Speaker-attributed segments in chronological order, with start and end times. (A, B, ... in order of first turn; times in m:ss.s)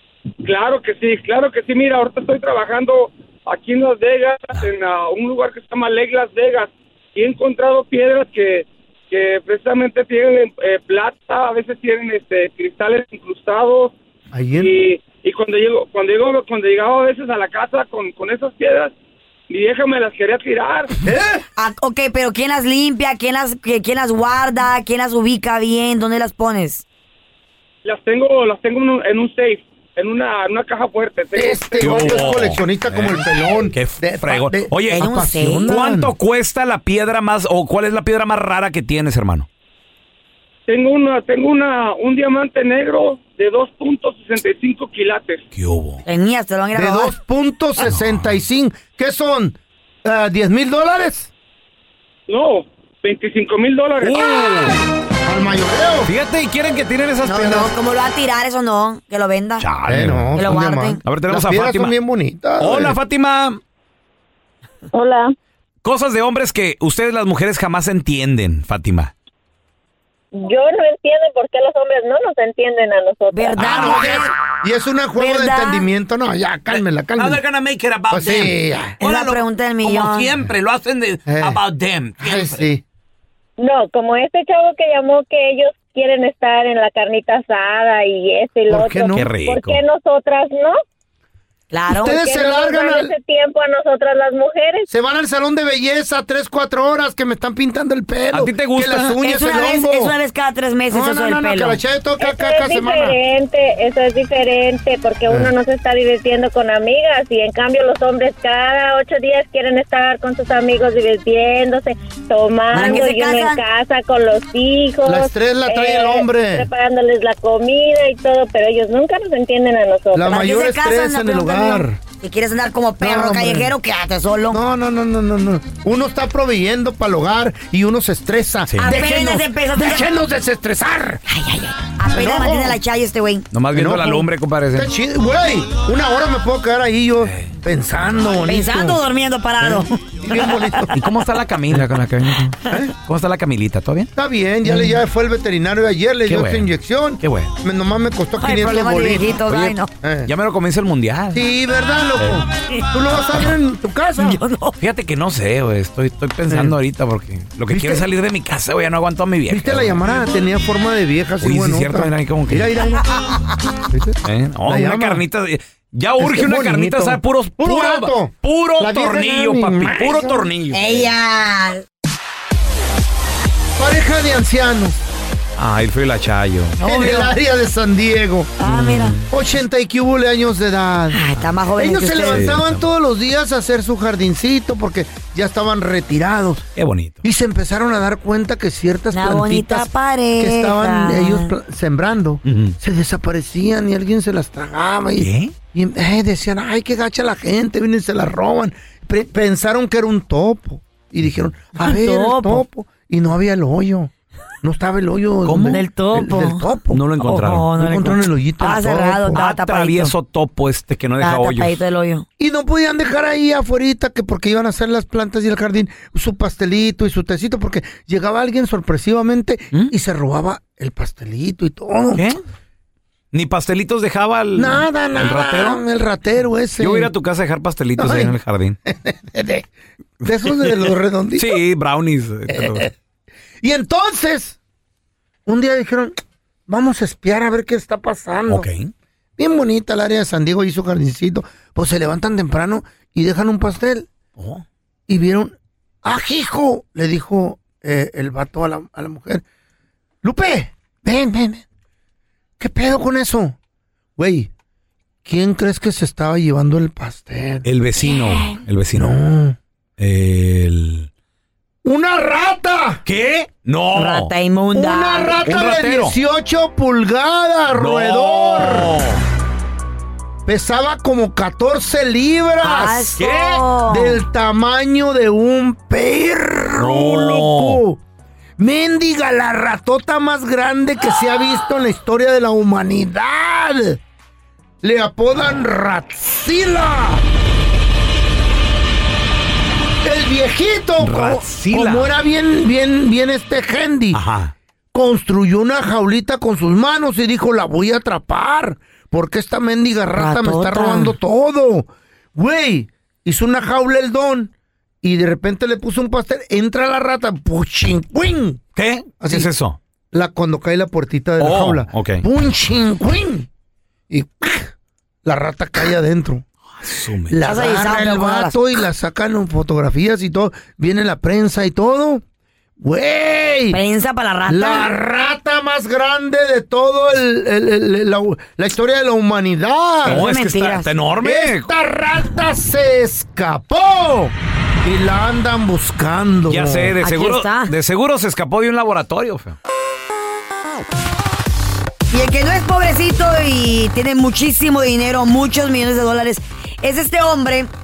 0:00.4-0:13.9 A
0:14.3-0:14.8 B
0:14.5-0:18.9 A
0:19.5-0:20.9 A
0:21.0-0:21.4 B
0:21.6-0:26.8 C
0:27.8-0:32.4 A
0:31.4-0:36.1 B
0:31.8-0:35.0 D
0:34.9-0:35.7 C
0:35.7-0:39.5 D
0:40.7-0:45.4 A
0:45.5-0:46.0 D
0:46.0-0:47.1 C
0:46.7-0:51.3 B
0:47.9-0:48.2 D
0:52.3-0:54.6 A
0:54.0-0:54.8 D
0:55.2-0:56.1 B
0:56.0-0:57.7 D
0:57.2-0:59.7 C
0:59.6-1:00.5 D
0:59.9-1:03.0 B
1:00.4-1:01.0 C
1:01.0-1:01.9 D
1:02.6-1:03.6 D
1:04.9-1:05.4 E
1:05.8-1:09.1 D
1:10.3-1:13.9 E
1:13.3-1:14.3 C
1:13.6-1:14.2 D
1:13.7-1:17.4 B
1:15.2-1:15.9 C
1:17.2-1:22.6 F
1:18.1-1:19.0 B
1:19.0-1:20.3 C
1:21.3-1:21.6 B
1:22.2-1:22.8 B
1:23.6-1:30.8 E
1:28.7-1:29.3 B
1:29.1-1:29.8 D
1:31.7-1:32.2 C
1:31.9-1:33.1 B
1:32.0-1:34.9 E
1:34.9-1:40.1 B
1:38.3-1:39.1 D
1:39.2-1:41.8 C
1:40.9-1:43.2 B
1:42.2-2:00.5 E
1:52.7-1:53.6 C
1:52.7-1:53.0 B
1:55.0-1:56.7 B
2:00.1-2:02.0 B
2:00.3-2:04.6 C
2:03.0-2:03.7 B
2:04.5-2:11.2 B
2:08.8-2:10.0 C
2:11.3-2:13.5 C
2:12.1-2:12.8 B
2:13.5-2:14.9 D
2:13.7-2:19.0 B
2:18.4-2:20.9 C
2:19.6-2:20.9 B
2:20.9-2:24.1 D
2:24.2-2:29.3 B
2:26.3-2:26.7 D
2:27.2-2:27.5 D
2:28.4-2:29.9 C
2:29.4-2:31.4 D
2:30.0-2:30.3 B
2:31.3-2:34.4 B
2:34.2-2:34.8 C
2:34.8-2:40.0 D
2:36.5-2:36.8 B
2:37.7-2:38.0 B
2:39.5-2:43.0 B
2:41.4-2:42.7 D
2:43.0-2:43.6 C
2:43.9-2:45.2 B
2:44.2-2:51.0 D
2:46.2-2:50.4 B
2:50.7-2:51.8 C
2:53.8-2:55.0 B
2:55.6-2:56.9 D
2:56.8-2:58.5 B
2:56.8-2:57.3 C
2:58.6-2:59.2 C
2:58.6-2:59.3 D
2:59.3-3:01.2 B
3:01.1-3:02.6 C
3:01.8-3:06.6 B
3:02.3-3:02.8 D
3:06.8-3:07.2 D
3:07.2-3:24.1 B
3:09.1-3:11.5 C
3:12.4-3:12.8 D
3:15.2-3:15.6 D
3:21.8-3:22.6 C
3:24.6-3:27.1 B
3:25.5-3:25.8 D
3:25.6-3:30.1 C
3:26.9-3:27.7 D
3:27.8-3:29.4 B
3:29.3-3:31.8 D
3:31.2-3:32.2 C
3:32.4-3:42.3 B
3:42.1-3:42.4 D
3:43.3-3:45.8 D
3:44.6-3:47.1 B
3:46.8-3:48.8 D
3:48.0-3:48.4 B
3:48.9-3:49.7 B
3:50.2-3:51.6 B
3:51.4-3:52.9 D
3:52.5-3:52.9 B
3:53.6-3:54.6 B
3:55.4-3:56.1 B
3:56.7-3:58.7 B
3:58.5-3:58.9 D
3:59.4-4:04.1 B
4:04.4-4:04.6 D
4:05.1-4:09.4 B
4:10.2-4:11.6 B
4:12.6-4:13.6 B
4:14.2-4:14.5 B
4:15.2-4:17.7 B
4:17.6-4:19.2 D
4:18.0-4:18.6 C
4:19.0-4:19.6 B
4:20.0-4:21.1 D
4:21.8-4:23.0 B
4:23.0-4:24.3 D
4:23.9-4:25.4 C
4:24.7-4:29.0 B
4:25.4-4:26.1 D
4:27.7-4:29.2 D
4:30.4-4:33.2 B
4:32.6-4:34.2 C
4:33.2-4:33.6 D
4:33.8-4:38.0 B
4:36.8-4:37.8 D
4:38.6-4:44.0 B
4:44.8-4:47.2 B
4:50.0-4:54.2 B
4:51.0-4:52.1 D
4:54.1-4:54.5 D
4:54.9-5:08.6 B
5:00.1-5:01.1 C
5:08.8-5:09.8 D
5:09.2-5:09.5 B
5:10.1-5:13.5 B
5:11.4-5:12.2 D
5:14.1-5:14.7 B
5:15.2-5:16.4 B
5:16.8-5:17.4 D
5:17.2-5:22.2 B
5:17.4-5:18.6 C
5:22.8-5:23.8 B
5:23.7-5:24.9 C
5:24.5-5:30.2 B
5:30.0-5:30.9 C
5:30.0-5:31.7 D
5:31.2-5:37.0 B
5:36.5-5:39.6 D
5:37.0-5:37.7 C
5:42.1-5:47.7 C